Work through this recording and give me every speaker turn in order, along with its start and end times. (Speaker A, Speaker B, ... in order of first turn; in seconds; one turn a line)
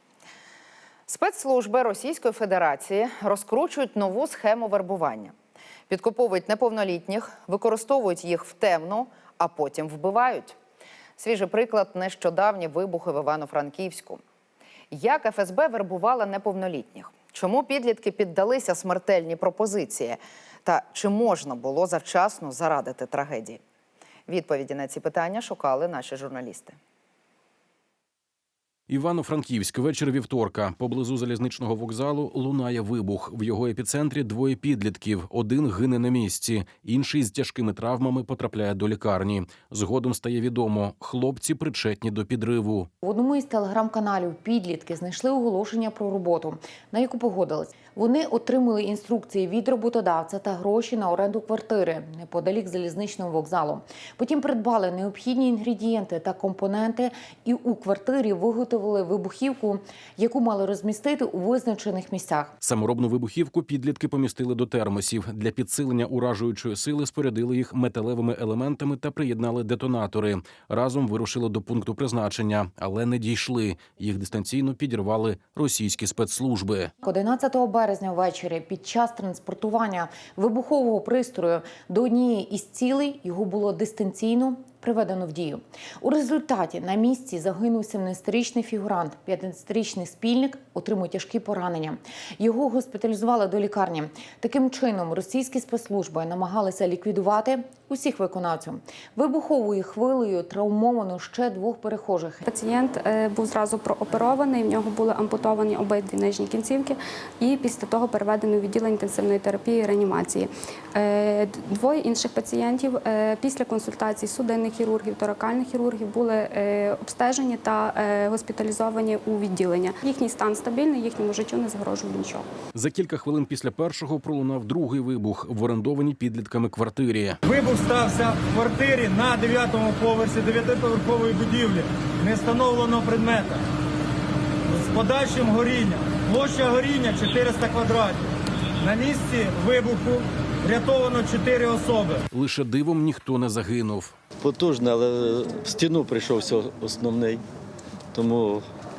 Speaker A: 1.1-5.3
Speaker A: 5.9-10.6
Speaker A: 11.2-14.2
Speaker A: 14.9-23.6
Speaker A: 24.3-26.8
Speaker B: 28.9-42.9
Speaker C: 43.0-62.5
Speaker B: 62.6-76.9
Speaker C: 77.0-102.4
Speaker D: 102.4-122.5
Speaker B: 122.7-127.4
Speaker E: 127.5-133.6
Speaker E: 134.7-138.3
Speaker E: 138.8-142.2
Speaker B: 142.3-144.1
Speaker F: 144.4-147.4
Speaker F: 148.1-148.7